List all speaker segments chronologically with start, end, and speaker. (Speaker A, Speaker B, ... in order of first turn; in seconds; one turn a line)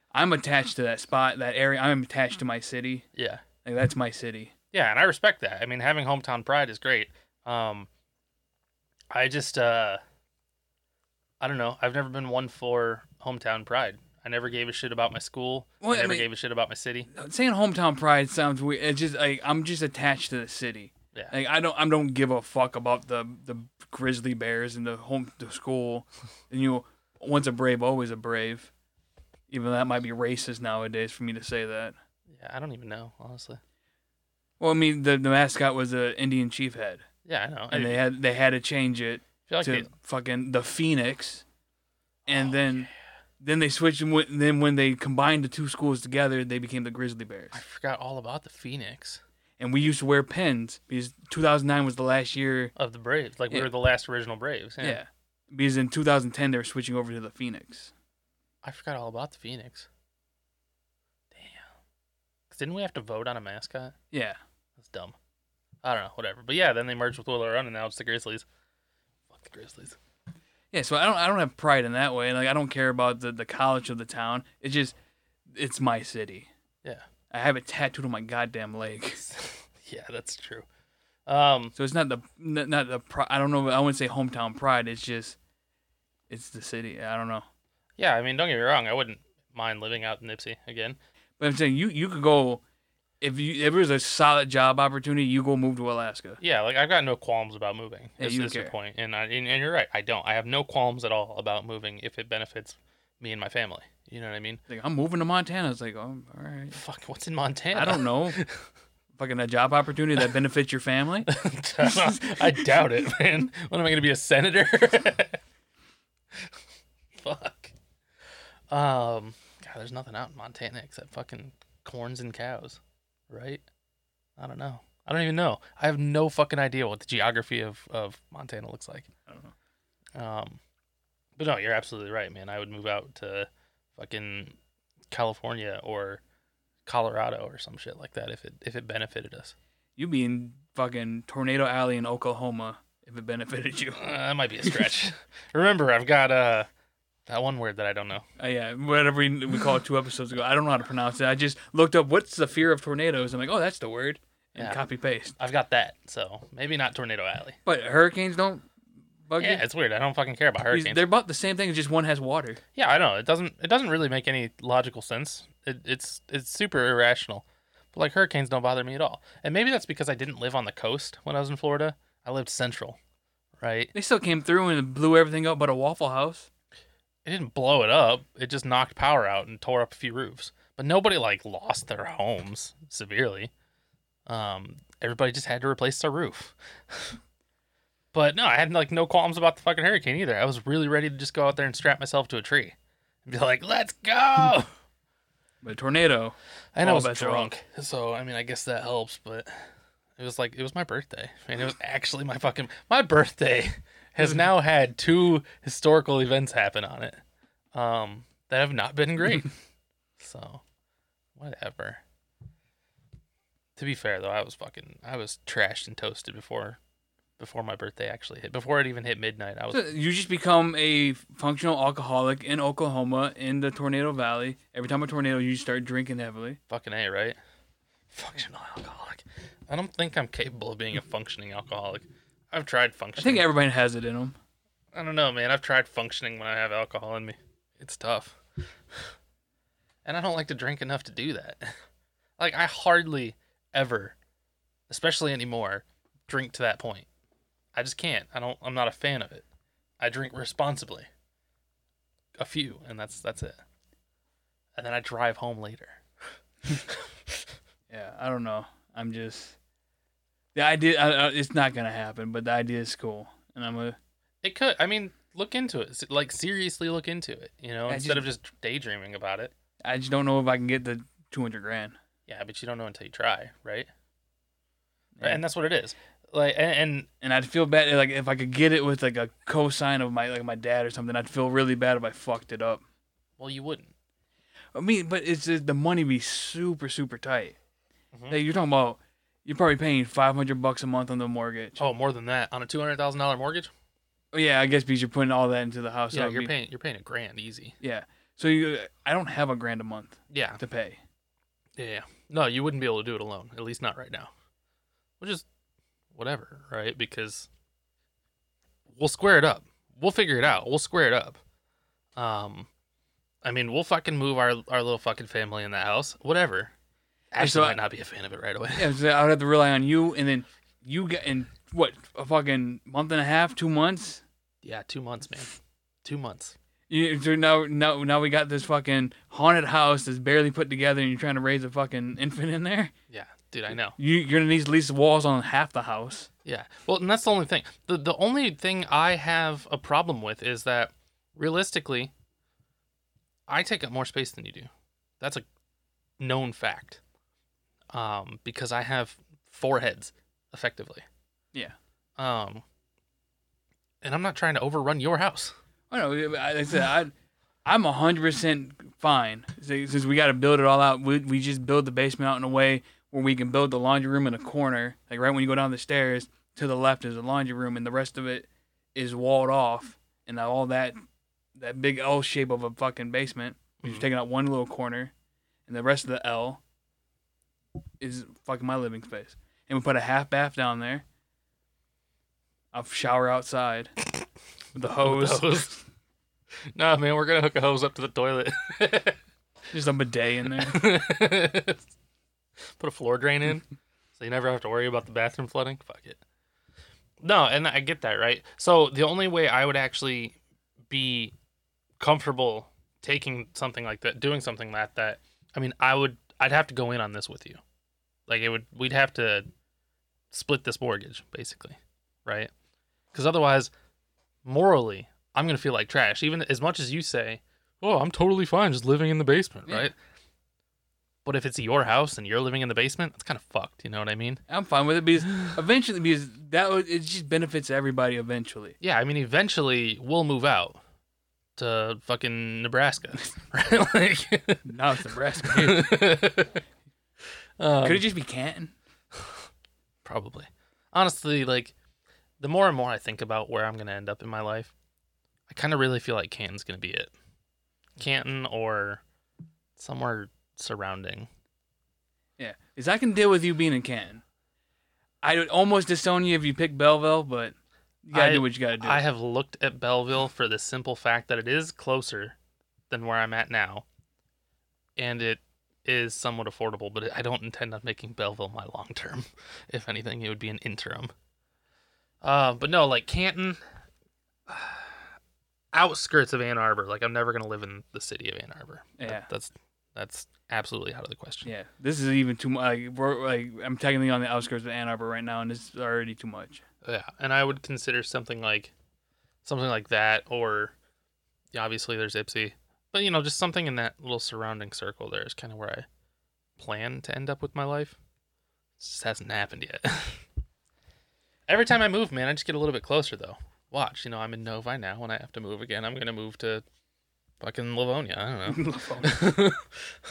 Speaker A: 0.1-3.1
Speaker B: 3.1-3.4
Speaker A: 3.6-4.5
Speaker B: 4.7-7.9
Speaker B: 9.1-10.0
Speaker B: 11.4-17.1
Speaker A: 15.8-16.3
Speaker A: 17.1-28.7
Speaker A: 29.5-32.0
Speaker B: 32.3-33.6
Speaker A: 34.6-37.0
Speaker B: 37.2-38.0
Speaker A: 37.7-41.4
Speaker B: 39.5-39.9
Speaker B: 42.3-42.7
Speaker A: 42.3-47.6
Speaker B: 47.5-49.2
Speaker A: 49.6-52.7
Speaker B: 52.8-55.0
Speaker A: 54.8-57.9
Speaker B: 58.6-59.9
Speaker B: 61.3-61.7
Speaker B: 62.5-64.0
Speaker A: 64.1-64.4
Speaker B: 64.8-65.2
Speaker B: 65.8-68.5
Speaker B: 69.3-70.0
Speaker A: 70.7-75.0
Speaker A: 75.5-76.5
Speaker A: 77.3-79.3
Speaker B: 79.3-80.7
Speaker B: 81.3-81.8
Speaker A: 81.8-85.4
Speaker A: 86.3-87.5
Speaker B: 88.0-91.0
Speaker A: 91.4-92.6
Speaker A: 93.2-96.4
Speaker B: 96.4-104.6
Speaker A: 98.2-98.7
Speaker A: 104.7-106.8
Speaker B: 106.8-108.6
Speaker A: 107.7-108.4
Speaker A: 109.2-111.3
Speaker B: 111.3-115.4
Speaker B: 116.3-116.6
Speaker B: 117.1-117.7
Speaker B: 118.7-123.6
Speaker B: 124.4-129.1
Speaker A: 129.3-129.5
Speaker B: 130.2-130.6
Speaker B: 131.4-134.6
Speaker B: 135.1-136.2
Speaker B: 136.9-139.6
Speaker A: 140.0-144.0
Speaker B: 143.9-146.7
Speaker B: 147.3-148.3
Speaker A: 148.4-155.3
Speaker B: 155.4-157.6
Speaker A: 157.7-158.7
Speaker A: 159.3-159.6
Speaker B: 159.4-161.1
Speaker A: 160.7-162.6
Speaker B: 162.8-173.0
Speaker B: 173.6-173.9
Speaker A: 173.9-176.5
Speaker B: 177.2-183.5
Speaker B: 184.3-187.2
Speaker B: 188.1-194.7
Speaker A: 195.6-197.5
Speaker B: 196.7-207.2
Speaker B: 207.7-209.5
Speaker B: 210.2-210.6
Speaker B: 211.4-212.0
Speaker B: 213.8-216.8
Speaker B: 217.4-219.9
Speaker A: 219.7-226.6
Speaker B: 226.7-227.4
Speaker B: 228.1-233.5
Speaker A: 233.2-234.4
Speaker B: 234.9-238.4
Speaker B: 240.1-241.8
Speaker B: 242.4-244.2
Speaker B: 244.9-247.1
Speaker B: 247.8-249.4
Speaker B: 250.0-251.1
Speaker B: 252.4-253.6
Speaker B: 254.8-256.0
Speaker B: 256.7-257.4
Speaker A: 257.9-259.6
Speaker A: 260.6-264.0
Speaker B: 264.4-269.5
Speaker A: 267.9-268.3
Speaker A: 269.8-272.0
Speaker B: 272.3-273.9
Speaker A: 275.2-275.4
Speaker B: 275.2-277.1
Speaker A: 277.2-282.8
Speaker B: 283.4-283.9
Speaker A: 284.8-287.6
Speaker B: 288.1-288.4
Speaker A: 288.3-291.8
Speaker B: 291.8-293.7
Speaker A: 294.3-296.5
Speaker B: 296.1-297.8
Speaker A: 297.8-301.0
Speaker B: 300.3-300.6
Speaker B: 301.8-304.3
Speaker B: 305.2-305.5
Speaker B: 306.1-307.5
Speaker B: 308.9-311.4
Speaker B: 312.2-312.7
Speaker B: 313.4-316.7
Speaker B: 317.3-318.9
Speaker A: 317.4-317.8
Speaker A: 318.8-324.2
Speaker B: 324.6-326.6
Speaker A: 326.9-332.9
Speaker B: 333.1-334.0
Speaker A: 334.0-336.3
Speaker B: 336.4-342.1
Speaker B: 343.5-345.4
Speaker B: 346.2-347.0
Speaker B: 347.9-351.0
Speaker B: 352.2-352.6
Speaker B: 354.0-355.5
Speaker A: 355.9-357.1
Speaker A: 357.7-371.0
Speaker A: 371.6-375.1
Speaker A: 375.7-376.6
Speaker A: 378.0-381.0
Speaker A: 382.7-384.0
Speaker A: 384.8-385.8
Speaker B: 385.0-385.7
Speaker B: 386.7-389.2
Speaker A: 389.7-390.9
Speaker B: 390.6-391.9
Speaker B: 392.8-396.2
Speaker B: 397.2-400.4
Speaker B: 400.9-401.3
Speaker B: 402.0-407.6
Speaker B: 408.3-409.5
Speaker B: 410.3-412.5
Speaker B: 413.1-413.7
Speaker B: 414.4-419.9
Speaker B: 421.2-424.4
Speaker A: 424.5-428.8
Speaker B: 428.8-430.8
Speaker B: 431.6-434.6
Speaker A: 434.6-436.0
Speaker B: 435.4-436.6
Speaker B: 437.6-438.1
Speaker A: 437.8-438.7
Speaker B: 440.1-441.7
Speaker B: 442.4-444.7
Speaker B: 445.5-447.1
Speaker B: 448.0-449.0
Speaker B: 449.8-451.3
Speaker A: 452.4-454.2
Speaker A: 455.2-459.0
Speaker B: 458.1-462.4
Speaker B: 462.9-463.9
Speaker B: 465.0-471.1
Speaker B: 472.2-473.6
Speaker B: 474.5-475.1
Speaker B: 475.7-481.5
Speaker A: 479.0-479.3
Speaker A: 481.4-486.6
Speaker B: 486.8-488.7
Speaker B: 489.4-490.7
Speaker B: 491.5-495.9
Speaker B: 496.6-498.0
Speaker B: 498.8-500.2
Speaker B: 501.5-506.6
Speaker B: 507.4-509.8
Speaker A: 508.5-509.3